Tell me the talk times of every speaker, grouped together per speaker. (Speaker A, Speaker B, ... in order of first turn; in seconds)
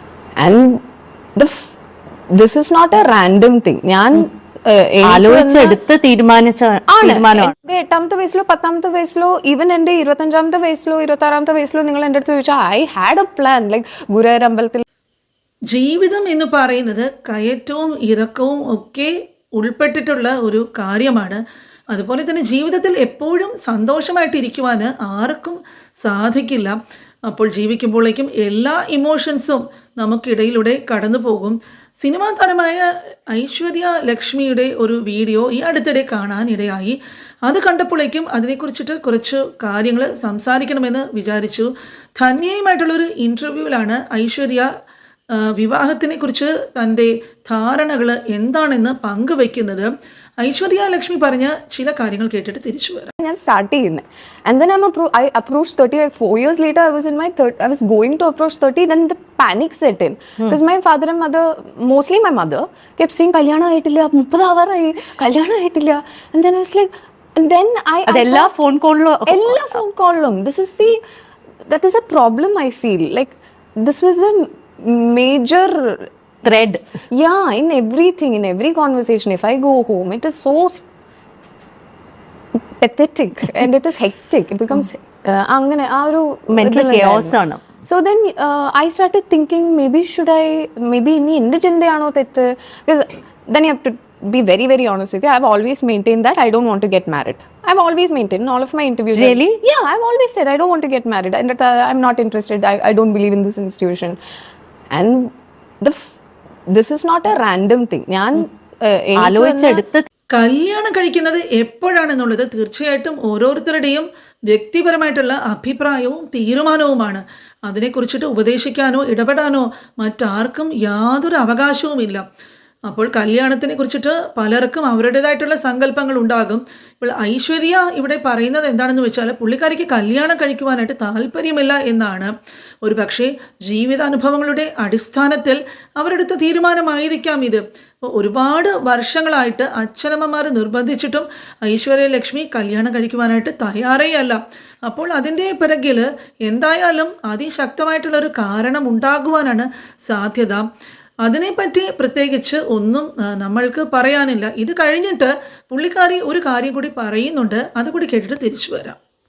Speaker A: 0.4-0.8, 1.4-1.8, 2.3-5.8, 6.9-14.8, 53.2-68.5, 69.3-71.0, 71.7-76.1, 77.1-80.9, 82.8-104.2, 104.9-106.2, 106.7-109.8
Speaker B: 5.0-7.5, 68.1-69.8, 76.4-76.8, 86.5-87.7, 99.1-99.6, 109.2-110.1
Speaker C: 15.7-21.4, 21.9-44.7, 45.3-49.9, 50.4-53.1, 110.3-122.2, 122.9-132.3, 132.8-150.7, 151.2-159.0